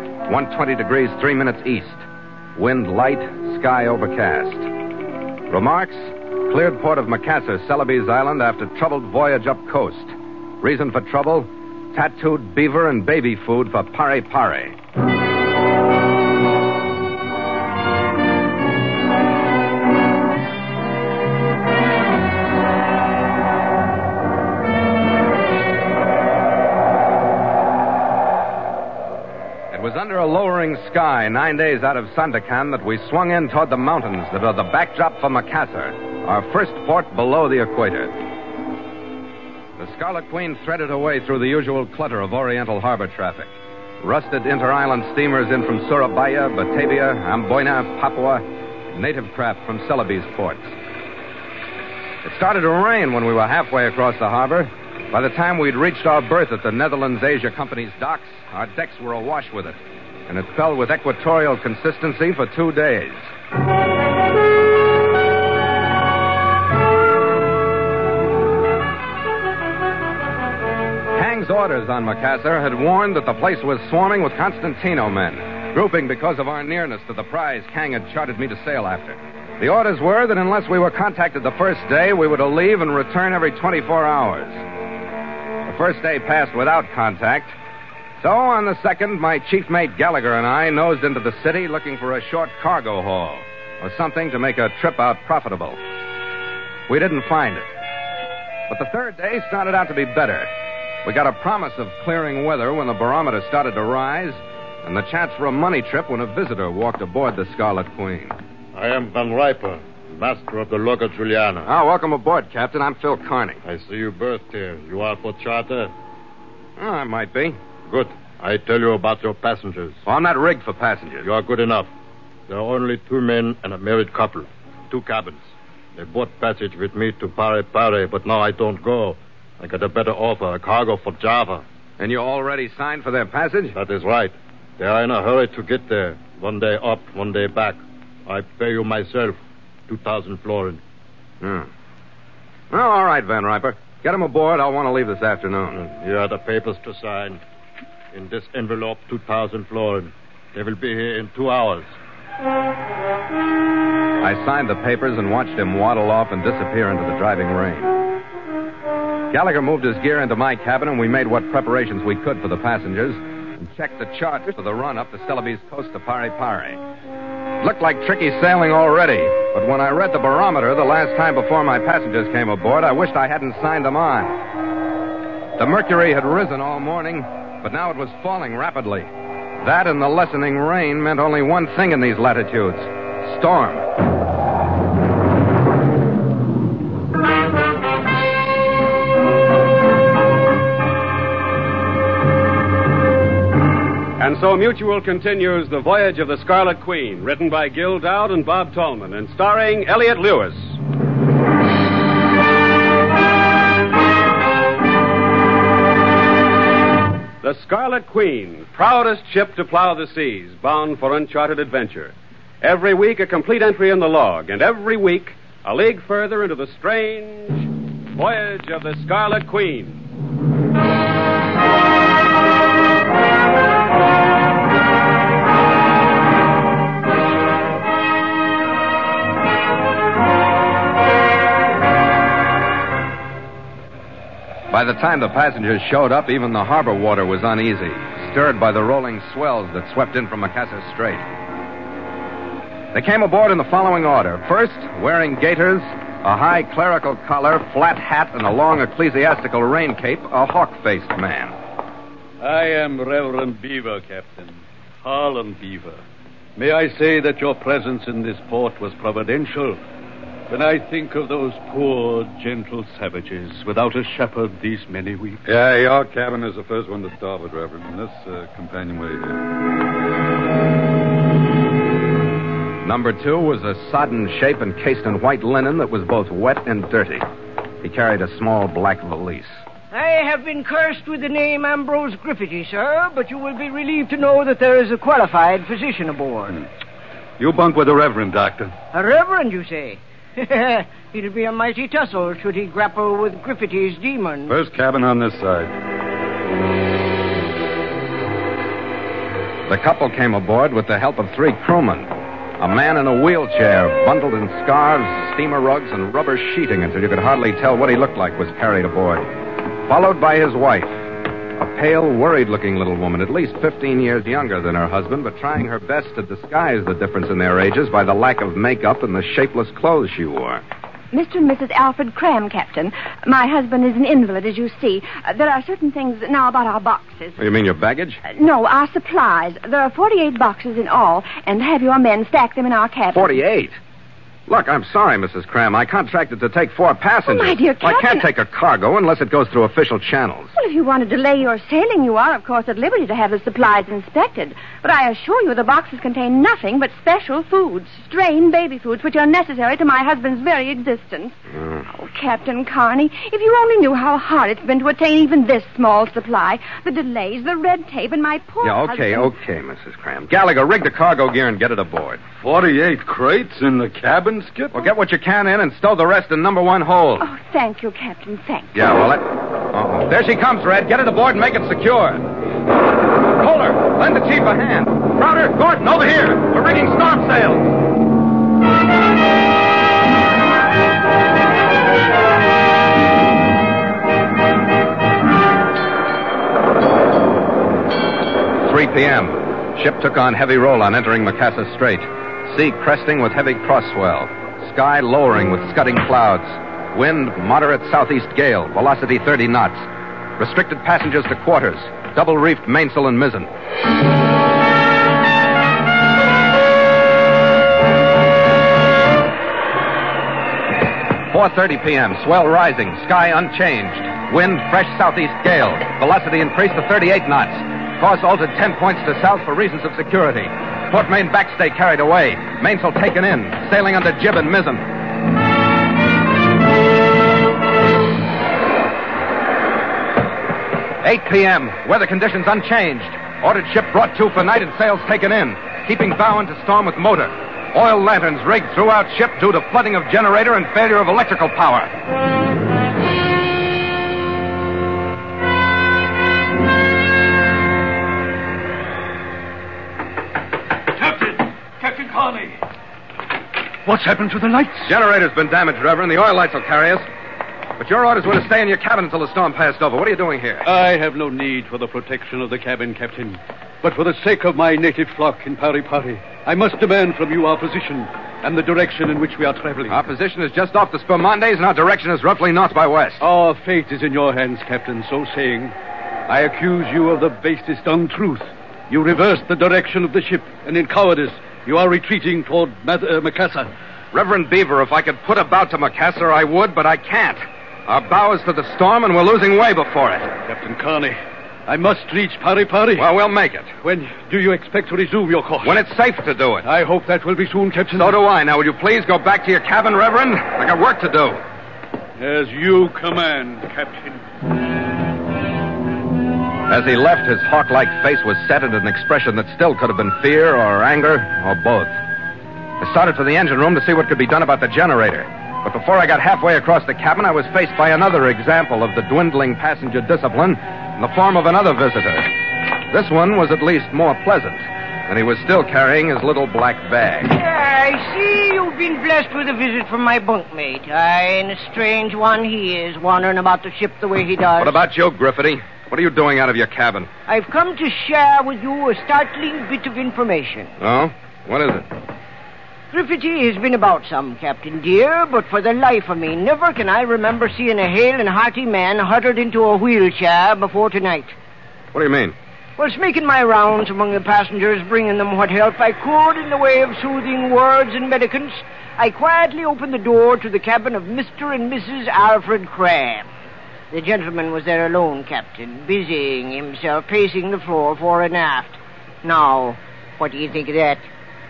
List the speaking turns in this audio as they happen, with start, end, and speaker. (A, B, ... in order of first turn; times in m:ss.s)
0:00.3-0:02.0 A
0:02.6-0:04.7 A
0:05.5-0:14.8 A
0:29.7-0:38.2 A
0:39.8-0:50.7 A
0:52.2-1:03.2 A
1:11.2-1:24.6 A
1:25.7-1:27.5 A
1:28.2-1:35.8 A
1:36.9-1:37.6 A
1:38.7-1:40.5 A
1:41.0-1:48.4 A
1:48.8-1:51.7 B
1:51.6-1:53.6 A
1:53.6-1:55.9 B
1:56.8-1:57.6 A
1:57.9-2:00.0 B
2:00.0-2:01.3 A
2:01.2-2:01.9 B
2:02.5-2:11.6 B
2:12.0-2:13.8 A
2:13.7-2:19.4 B
2:19.9-2:20.8 B
2:21.4-2:21.7 A
2:22.7-2:25.8 A
2:25.8-2:27.4 B
2:28.1-2:31.9 B
2:34.2-2:37.9 A
2:39.3-2:46.8 A
2:47.6-2:54.4 A
2:55.6-2:59.1 A
2:59.6-3:03.8 A
3:14.2-3:20.8 C
3:27.4-3:40.0 C
3:54.7-4:01.2 A
4:02.9-4:11.5 A
4:12.4-4:16.0 D
4:16.6-4:19.8 D
4:20.5-4:25.4 D
4:25.5-4:29.4 E
4:32.8-4:37.2 A
4:37.8-4:39.5 A
4:39.9-4:46.6 F
4:47.4-4:48.7 E
4:48.9-4:54.5 F
4:54.5-4:55.7 E
4:59.7-5:09.3 A
5:09.9-5:11.1 A
5:11.6-5:20.6 A
5:21.1-5:27.4 G
5:27.4-5:28.2 A
5:28.3-5:33.4 G
5:33.1-5:33.8 A
5:34.5-5:40.5 A
5:37.3-5:38.3 G
5:40.6-5:51.4 G
5:51.6-5:51.9 A
5:51.9-5:59.3 G
5:58.6-6:02.2 A
6:02.4-6:04.8 E
6:04.7-6:07.3 A
6:07.2-6:08.8 G
6:08.7-6:12.2 A
6:13.3-6:17.7 A
6:28.6-6:39.9 A
6:40.4-6:43.5 A
6:51.3-7:04.8 A
7:11.0-7:21.9 A
7:30.9-7:32.6 D
7:33.8-7:34.9 D
7:34.8-7:37.1 A
7:37.8-7:40.7 A
7:40.6-7:50.0 D
7:49.9-7:53.2 A
7:53.2-7:55.7 D
7:56.3-8:03.7 D
8:04.1-8:10.3 A
8:10.4-8:13.1 D
8:13.0-8:13.7 A
8:13.8-8:15.8 D
8:15.6-8:16.6 A
8:16.6-8:18.2 D
8:18.0-8:21.4 A
8:22.2-8:24.2 D
8:26.7-8:32.0 A
8:32.8-8:42.3 A
8:42.9-8:47.4 A
8:47.3-8:54.8 F
8:54.6-8:57.1 A
8:57.3-9:00.7 F
9:00.8-9:01.9 A
9:02.9-9:11.3 F
9:11.9-9:12.4 A
9:12.8-9:23.3 F
9:23.9-9:31.0 F